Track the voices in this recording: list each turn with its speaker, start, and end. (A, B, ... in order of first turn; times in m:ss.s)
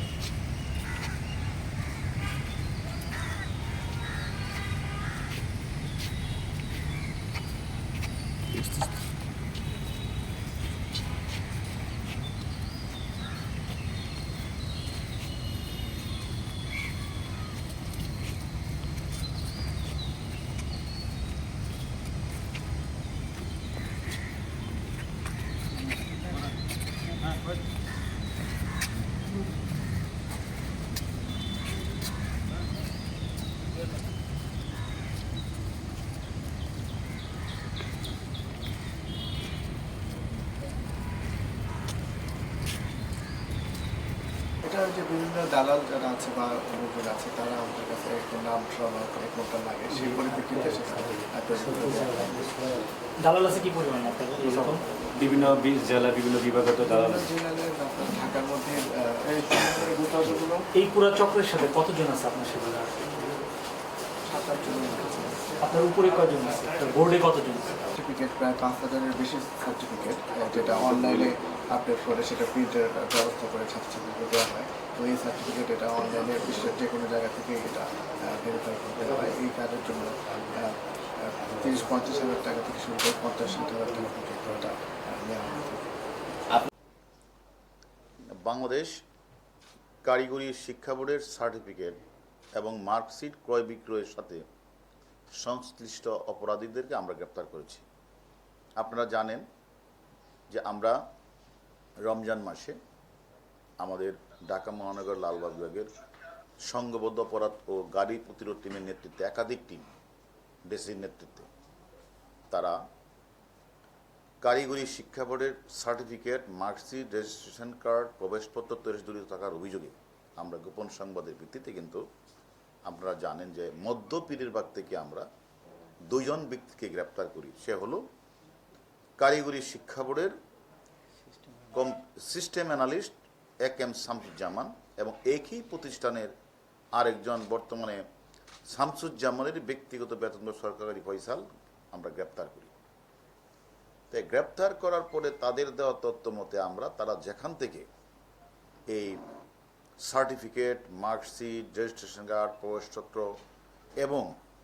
0:44.6-0:52.4 A
0:51.5-0:54.8 B
0:54.5-0:57.3 C
0:57.0-1:00.7 A
1:00.7-1:03.0 B
1:04.3-1:05.5 A
1:05.6-1:07.8 B
1:07.9-1:25.9 A
1:28.4-1:29.0 D
1:30.0-1:32.0 D
1:32.6-1:34.4 D
1:35.4-1:37.9 D
1:38.8-1:39.4 D
1:40.5-1:41.0 D
1:42.0-1:42.8 D
1:43.8-1:45.9 D
1:46.7-1:49.9 D
1:50.7-1:51.5 D
1:52.5-1:52.8 D
1:54.4-2:02.0 D
2:02.9-2:05.3 D
2:06.1-2:08.0 D
2:09.2-2:10.3 D
2:11.7-2:16.3 D
2:17.0-2:18.0 D
2:18.7-2:22.7 D
2:24.1-2:27.9 D
2:28.9-2:29.2 D
2:30.0-2:33.3 D
2:34.0-2:34.3 D